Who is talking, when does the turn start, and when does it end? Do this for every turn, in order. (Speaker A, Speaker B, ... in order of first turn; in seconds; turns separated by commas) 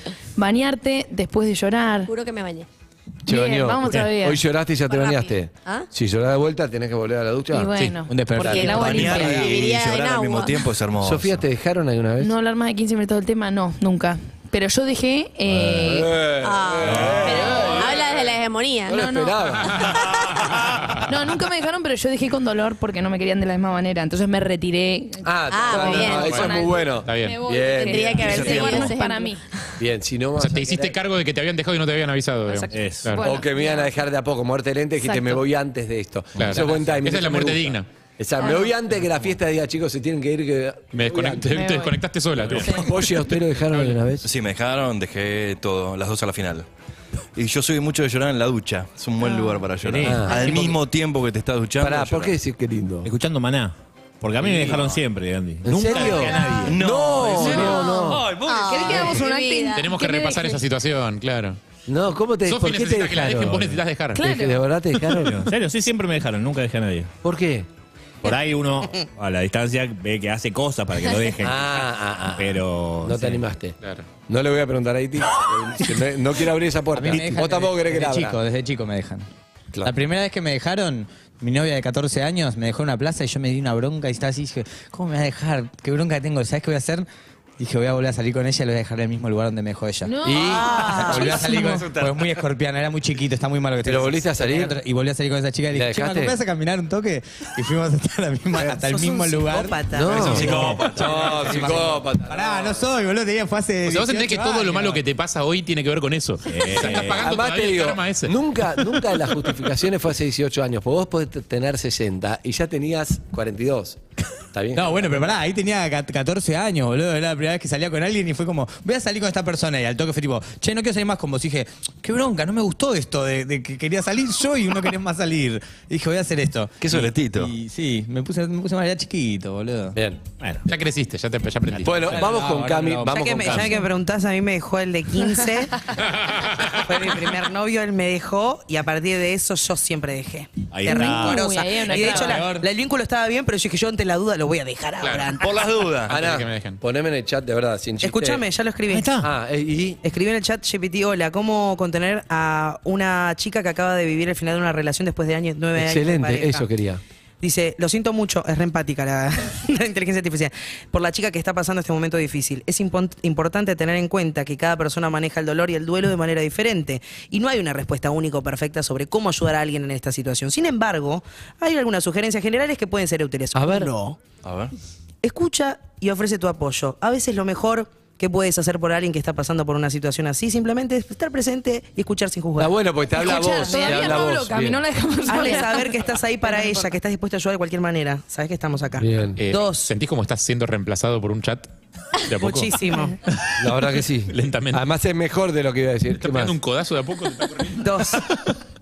Speaker A: 0.4-2.1, Speaker B: 2.1-2.7, Speaker C: 3.3-8.8, Speaker A: 3.3-4.4, Speaker B: 4.9-5.9, Speaker A: 7.5-9.5, Speaker D: 8.1-9.6, Speaker B: 8.5-10.7, Speaker E: 8.7-11.4, Speaker C: 11.0-12.3, Speaker A: 12.2-16.1, Speaker C: 15.7-18.3, Speaker B: 16.4-19.0, Speaker F: 16.9-17.4, Speaker A: 17.3-17.9, Speaker C: 18.9-20.6, Speaker A: 18.9-20.0, Speaker A: 21.0-29.4, Speaker C: 25.2-28.9, Speaker B: 25.5-26.7, Speaker G: 27.1-27.4, Speaker B: 27.8-29.4, Speaker E: 28.3-28.7, Speaker C: 29.8-30.9, Speaker G: 30.4-33.2, Speaker A: 32.5-33.8, Speaker F: 32.7-33.2, Speaker C: 33.2-41.6, Speaker A: 35.0-35.4, Speaker G: 36.4-37.9, Speaker G: 40.9-44.0, Speaker A: 41.5-42.0, Speaker A: 42.6-42.9, Speaker C: 42.6-44.3, Speaker E: 44.2-46.7, Speaker E: 47.4-52.4, Speaker A: 49.2-49.6, Speaker F: 49.8-50.2, Speaker C: 50.0-50.8, Speaker C: 51.8-53.1, Speaker F: 53.0-56.8, Speaker E: 54.4-54.8, Speaker C: 55.6-58.3, Speaker E: 56.6-59.2, Speaker B: 57.4-60.6, Speaker H: 58.5-59.8, Speaker G: 59.7-61.6, Speaker C: 61.9-65.5, Speaker G: 62.5-64.2, Speaker A: 64.2-64.7, Speaker F: 65.2-67.1, Speaker C: 67.2-67.7, Speaker F: 68.2-73.5, Speaker C: 71.4-78.4, Speaker G: 73.8-74.1, Speaker D: 76.9-79.3, Speaker D: 79.8-87.1, Speaker D: 87.6-100.8, Speaker A: 90.0-91.7, Speaker C: 90.2-91.8, Speaker H: 90.3-91.4, Speaker C: 93.8-94.8, Speaker C: 95.7-96.4, Speaker H: 98.7-100.3, Speaker C: 99.9-102.8, Speaker E: 100.2-102.0, Speaker F: 100.3-100.8, Speaker D: 101.4-105.0, Speaker G: 103.9-108.3, Speaker F: 106.5-107.3, Speaker C: 106.8-114.0, Speaker C: 114.5-115.2, Speaker D: 114.7-130.0, Speaker E: 126.8-127.5, Speaker C: 129.9-130.2, Speaker G: 130.7-132.3, Speaker C: 131.8-133.8, Speaker D: 132.0-133.7, Speaker H: 133.1-135.9, Speaker G: 136.1-136.8, Speaker H: 136.8-145.6, Speaker F: 140.7-141.5, Speaker A: 140.9-142.5, Speaker D: 141.9-142.7, Speaker G: 145.0-145.3, Speaker E: 145.4-146.2, Speaker G: 146.1-146.8, Speaker C: 146.1-148.4, Speaker H: 148.0-149.2, Speaker F: 148.9-149.3, Speaker C: 149.2-150.0, Speaker H: 150.0-156.7, Speaker C: 155.8-157.0, Speaker H: 157.4-174.2, Speaker C: 173.6-173.9, Speaker E: 174.4-174.7, Speaker H: 175.2-182.8, Speaker C: 182.6-184.8, Speaker A: 183.2-186.0, Speaker H: 183.6-184.1, Speaker H: 185.2-189.9, Speaker A: 186.5-186.8, Speaker C: 189.0-189.4, Speaker G: 189.4-192.8, Speaker H: 192.4-193.2, Speaker C: 193.6-196.6, Speaker G: 194.3-194.8, Speaker G: 196.2-198.2, Speaker H: 197.8-198.2